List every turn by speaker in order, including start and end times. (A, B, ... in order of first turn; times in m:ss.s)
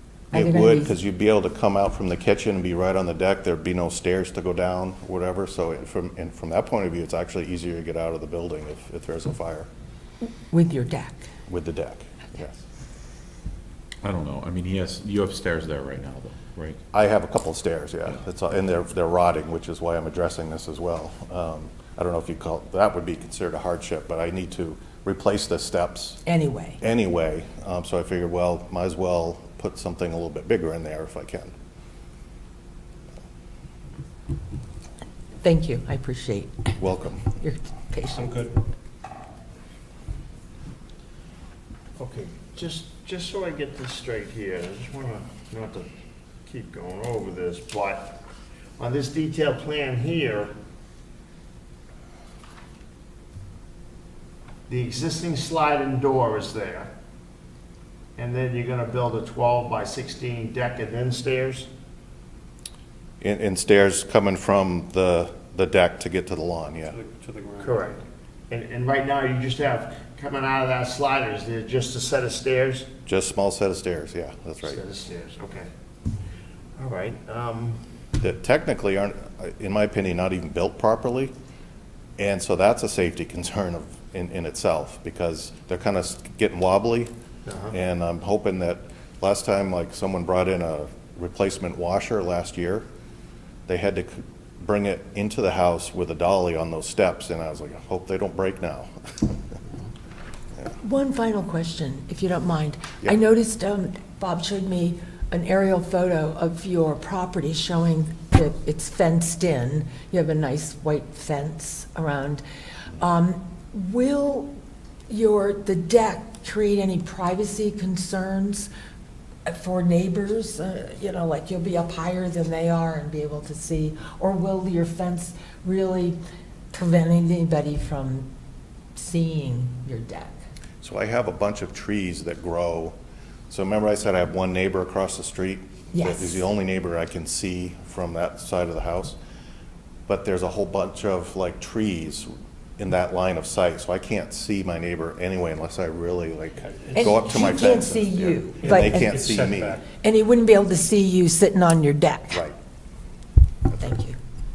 0:00.3-0:00.9 A
0:00.3-0:09.7 B
0:10.5-0:11.3 A
0:11.5-0:12.6 B
0:14.0-0:16.8 C
0:16.9-0:26.2 B
0:26.2-0:26.8 A
0:26.8-0:31.5 B
0:35.4-0:38.3 A
0:36.8-0:37.3 B
0:38.1-0:38.6 D
0:42.0-0:45.9 E
0:46.5-0:48.2 E
0:48.8-0:50.5 E
0:54.7-0:56.9 E
0:58.2-1:01.7 E
1:03.2-1:07.0 B
1:06.9-1:08.0 D
1:07.6-1:12.9 E
1:13.1-1:14.8 B
1:14.6-1:15.7 E
1:16.8-1:17.8 E
1:18.2-1:21.3 B
1:22.2-1:27.1 B
1:27.5-1:27.7 E
1:27.7-1:32.8 B
1:33.7-1:39.4 B
1:40.8-1:52.4 A
1:53.0-1:54.5 A
1:55.1-1:58.7 A
1:59.4-2:06.2 A
2:06.7-2:08.3 A
2:09.0-2:10.4 A
2:10.8-2:13.0 B
2:13.5-2:19.2 B
2:15.9-2:16.4 A
2:20.1-2:29.8 B
2:26.6-2:27.5 D
2:26.9-2:29.1 A
2:28.6-2:29.9 D
2:30.0-2:32.4 A
2:32.3-2:32.6 B
2:33.8-2:34.2 A